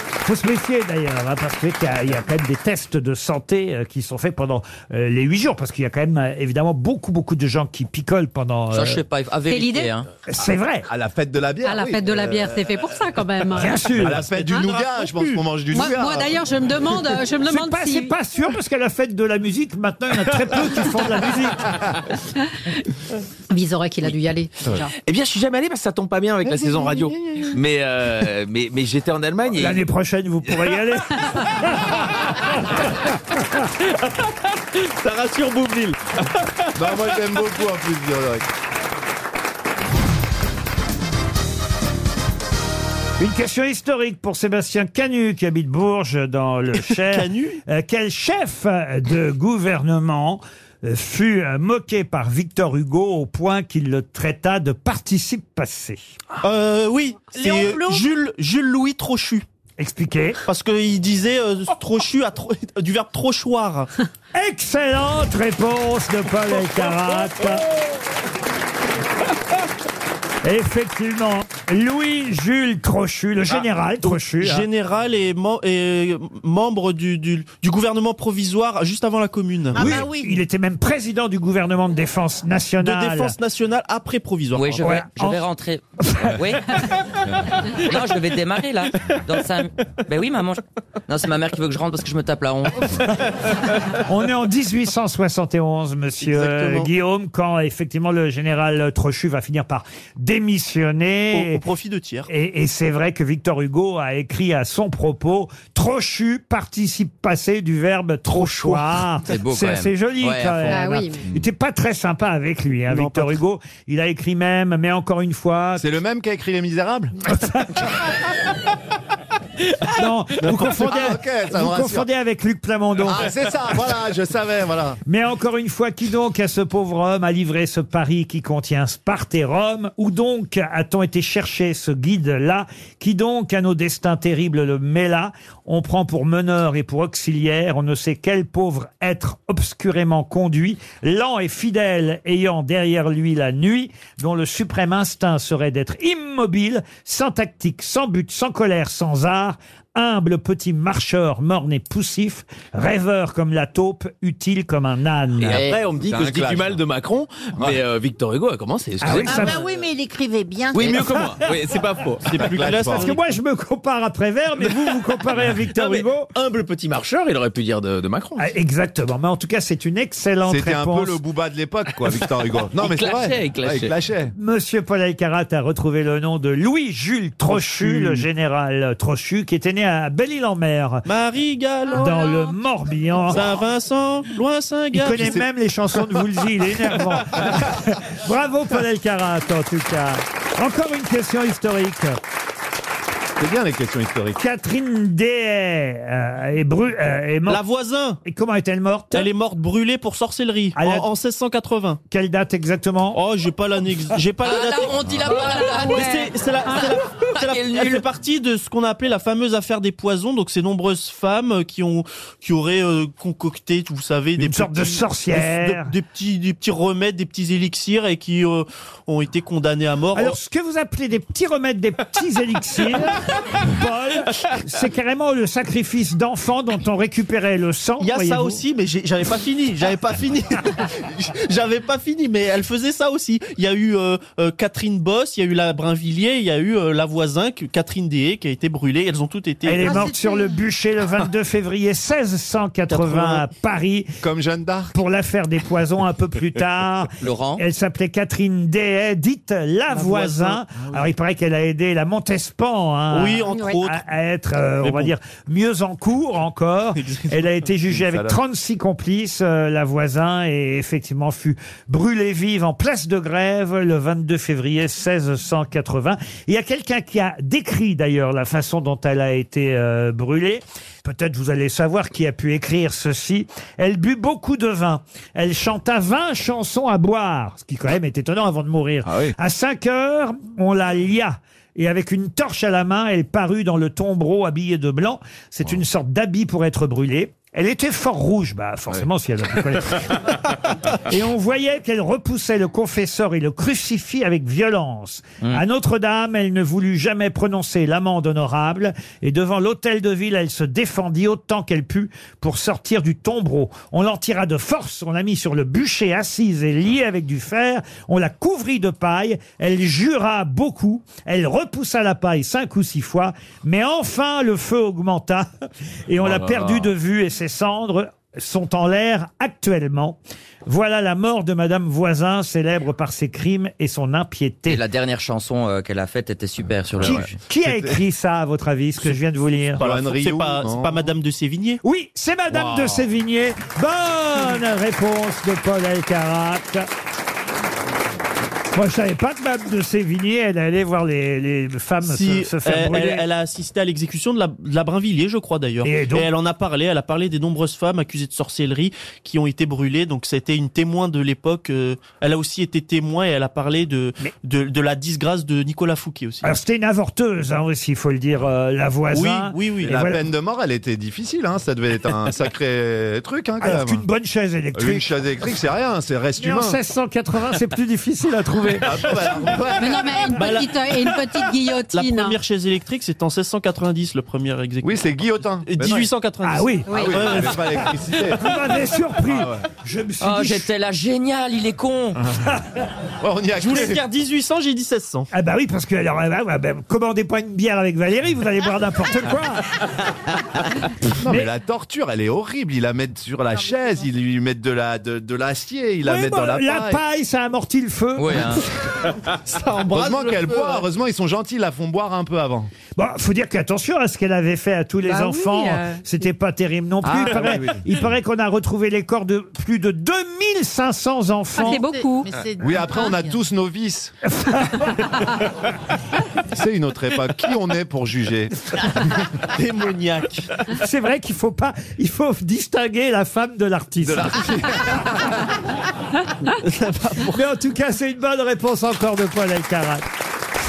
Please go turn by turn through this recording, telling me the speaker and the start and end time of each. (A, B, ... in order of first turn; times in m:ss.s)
0:00.2-0:09.0 A
0:08.7-0:10.1 B
0:09.5-0:09.9 C
0:10.3-0:10.9 A
0:10.9-0:12.8 D
0:11.6-0:13.9 C
0:13.5-0:14.3 A
0:14.0-0:16.4 D
0:14.5-0:15.4 E
0:15.7-0:18.1 C
0:17.4-0:21.7 A
0:23.5-0:24.9 C
0:25.0-0:29.8 F
0:26.5-0:27.5 D
0:29.6-0:31.9 A
0:34.8-0:36.3 F
0:36.7-0:38.4 D
0:43.2-0:56.0 A
0:46.9-0:47.6 E
0:56.4-0:59.4 E
0:57.3-0:58.1 G
0:59.8-1:00.4 A
1:00.4-1:03.9 E
1:04.3-1:07.6 A
1:10.4-1:14.6 A
1:14.0-1:20.1 E
1:19.7-1:20.4 G
1:19.8-1:23.3 A
1:22.8-1:24.8 E
1:24.5-1:26.6 B
1:24.8-1:25.4 A
1:26.0-1:26.4 A
1:27.7-1:32.9 B
1:34.0-1:41.6 A
1:36.2-1:36.9 E
1:41.3-1:42.3 E
1:42.3-1:55.9 A
1:49.2-1:50.9 B
1:50.7-1:51.2 C
1:52.9-1:53.4 E
1:55.8-1:57.2 D
1:57.3-1:57.9 A
1:59.9-2:03.3 A
2:00.4-2:02.1 D
2:03.0-2:05.0 D
2:05.1-2:35.6 A
2:35.4-2:39.6 F
2:35.9-2:36.8 D
2:39.0-2:39.6 A
2:39.2-2:41.1 G
2:40.7-2:42.4 F
2:42.2-2:43.2 E
2:42.3-2:43.1 D
2:42.9-2:46.3 A
2:45.6-2:48.5 F
2:48.4-2:51.2 A
2:50.4-2:54.3 D
2:52.8-2:53.9 F
2:54.4-3:01.0 A
2:57.5-2:58.2 E
3:01.0-3:02.3 E
3:01.9-3:03.4 A
3:03.3-3:05.4 E
3:04.9-3:12.2 A
3:05.2-3:05.4 D
3:13.4-3:14.4 D
3:14.4-3:17.6 A
3:17.5-3:18.2 E
3:18.2-3:19.3 A
3:19.1-3:22.0 E
3:20.7-3:21.1 A
3:22.1-3:23.2 A
3:23.1-3:25.1 E
3:24.4-3:26.2 B
3:25.2-3:26.9 C
3:25.9-3:40.4 E
3:26.7-3:28.0 B
3:34.4-3:35.9 A
3:40.1-3:48.6 A
3:48.0-4:00.0 E
3:59.6-4:04.1 A
3:59.8-4:00.5 G
4:02.9-4:03.4 E
4:04.2-4:04.9 D
4:04.9-4:50.3 A
4:07.2-4:07.6 B
4:09.9-4:11.0 E
4:13.1-4:14.0 E
4:13.5-4:13.8 C
4:14.8-4:15.1 E
4:17.0-4:17.5 E
4:17.9-4:18.4 D
4:51.0-5:15.5 A
5:16.1-5:24.8 A
5:24.7-5:27.3 B
5:27.0-5:28.0 D
5:27.0-5:29.8 A
5:29.8-5:31.8 E
5:29.8-5:31.1 D
5:31.8-5:36.9 A
5:32.5-5:33.0 D
5:38.7-5:43.2 A
5:42.0-5:56.5 E
5:45.8-5:46.3 A
5:56.4-6:00.2 A
5:59.1-6:00.0 E
5:59.8-6:04.0 D
6:03.6-6:05.1 A
6:04.7-6:06.8 D
6:06.4-6:08.9 A
6:08.8-6:10.3 D
6:09.8-6:12.4 C
6:10.3-6:11.1 E
6:11.9-6:15.0 E
6:14.8-6:16.1 D
6:15.6-6:17.6 E
6:16.4-6:20.7 A
6:16.9-6:17.2 C
6:16.9-6:18.4 D
6:19.2-6:19.6 D
6:20.2-6:22.2 B
6:23.2-6:24.0 D
6:23.6-6:25.3 E
6:25.3-6:29.6 A
6:31.2-6:37.0 D
6:36.0-6:38.6 A
6:38.2-6:38.6 B
6:39.4-6:40.8 E
6:39.9-6:42.7 D
6:43.0-6:51.8 A
6:45.1-6:46.0 C
6:47.0-6:47.8 D
6:51.6-6:52.3 C
6:51.6-6:53.4 G
6:52.6-6:54.1 D
6:54.2-6:55.0 A
6:56.5-6:58.5 D
6:59.5-7:00.5 E
7:00.8-7:04.4 A
7:04.0-7:05.2 D
7:06.6-7:07.4 E
7:07.3-7:10.0 A